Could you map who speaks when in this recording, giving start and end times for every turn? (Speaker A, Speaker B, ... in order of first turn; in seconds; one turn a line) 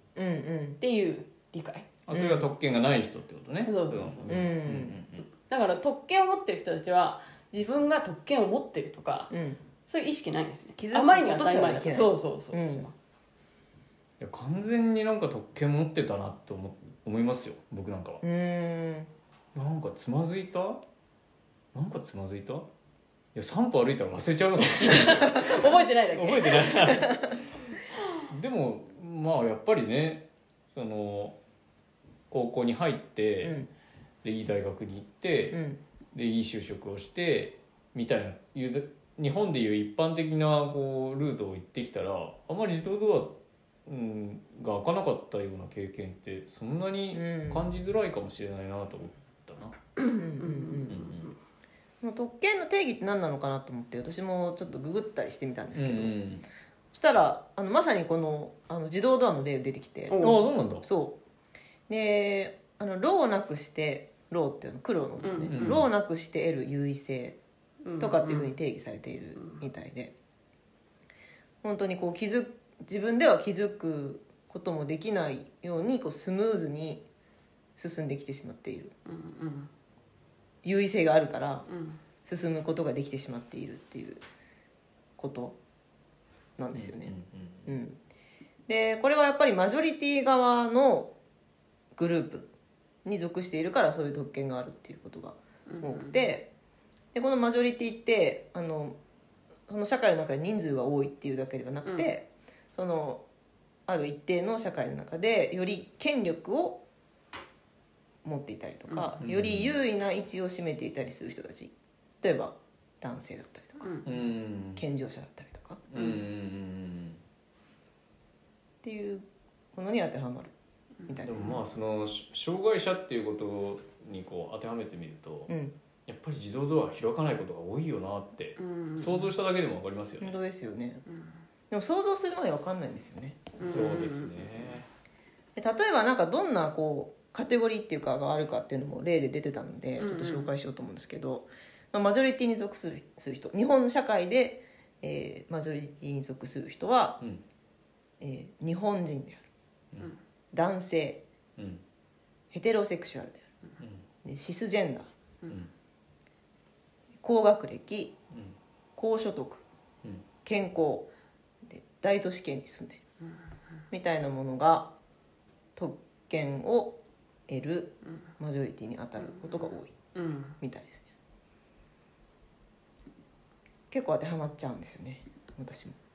Speaker A: 0.2-0.8
Speaker B: 0.8-1.9
Speaker C: 2.1-5.2
Speaker A: 2.1-2.5
Speaker B: 3.6-4.5
Speaker A: 4.3-5.0
Speaker B: 5.3-9.3
Speaker A: 9.3-9.6
Speaker B: 9.9-12.9
Speaker A: 10.8-12.9
Speaker C: 14.2-18.2
Speaker A: 18.2-19.1
Speaker C: 19.5-20.8
Speaker C: 21.7-22.7
Speaker C: 23.4-31.4
Speaker B: 24.8-27.1
Speaker C: 32.3-33.6
Speaker A: 33.4-33.7
Speaker C: 34.2-43.4
Speaker A: 35.5-35.8
Speaker C: 43.9-49.8
Speaker A: 47.1-47.6
Speaker B: 50.0-51.4
Speaker A: 50.2-51.0
Speaker C: 50.9-51.3
Speaker A: 52.0-56.2
Speaker C: 55.8-56.5
Speaker A: 56.9-60.3
Speaker B: 60.1-60.4
Speaker C: 60.2-60.9
Speaker A: 60.8-61.2
Speaker A: 61.9-67.4
Speaker B: 65.2-65.8
Speaker C: 65.5-65.9
Speaker B: 67.8-68.5
Speaker A: 68.0-70.1
Speaker B: 69.4-69.6
Speaker A: 71.6-77.0
Speaker A: 77.8-78.9
Speaker B: 79.1-79.7
Speaker A: 80.6-81.7
Speaker B: 81.7-82.0
Speaker A: 82.2-84.2
Speaker A: 85.2-85.6
Speaker A: 86.6-87.2
Speaker C: 86.7-87.7
Speaker A: 87.7-88.0
Speaker A: 88.7-91.1
Speaker A: 92.0-92.5
Speaker A: 93.0-96.5
Speaker B: 95.7-96.3
Speaker A: 97.1-99.0
Speaker A: 99.7-103.2
Speaker A: 103.9-106.8
Speaker A: 108.2-113.9
Speaker B: 108.9-109.2
Speaker C: 109.2-109.7
Speaker B: 113.8-114.1
Speaker C: 114.1-114.8
Speaker A: 114.8-115.8
Speaker C: 115.9-117.2
Speaker A: 118.8-120.5
Speaker B: 121.0-121.6
Speaker A: 121.1-121.6
Speaker C: 121.2-125.5
Speaker A: 125.5-125.7
Speaker C: 126.1-130.4
Speaker B: 128.6-129.3
Speaker A: 130.2-131.0
Speaker B: 131.1-131.4
Speaker A: 131.7-133.5
Speaker B: 133.6-134.7
Speaker C: 133.6-134.9
Speaker A: 135.6-147.2
Speaker B: 140.0-140.5
Speaker A: 148.2-149.4
Speaker A: 150.5-151.2
Speaker C: 151.6-151.8
Speaker A: 152.5-153.4
Speaker C: 153.8-154.0
Speaker A: 154.2-155.1
Speaker A: 157.2-158.1
Speaker A: 159.0-159.6
Speaker A: 160.4-161.1
Speaker A: 161.7-163.0
Speaker A: 163.9-164.9
Speaker A: 165.8-166.9
Speaker A: 167.5-169.9
Speaker B: 169.2-170.6
Speaker A: 170.6-171.1
Speaker A: 173.9-176.0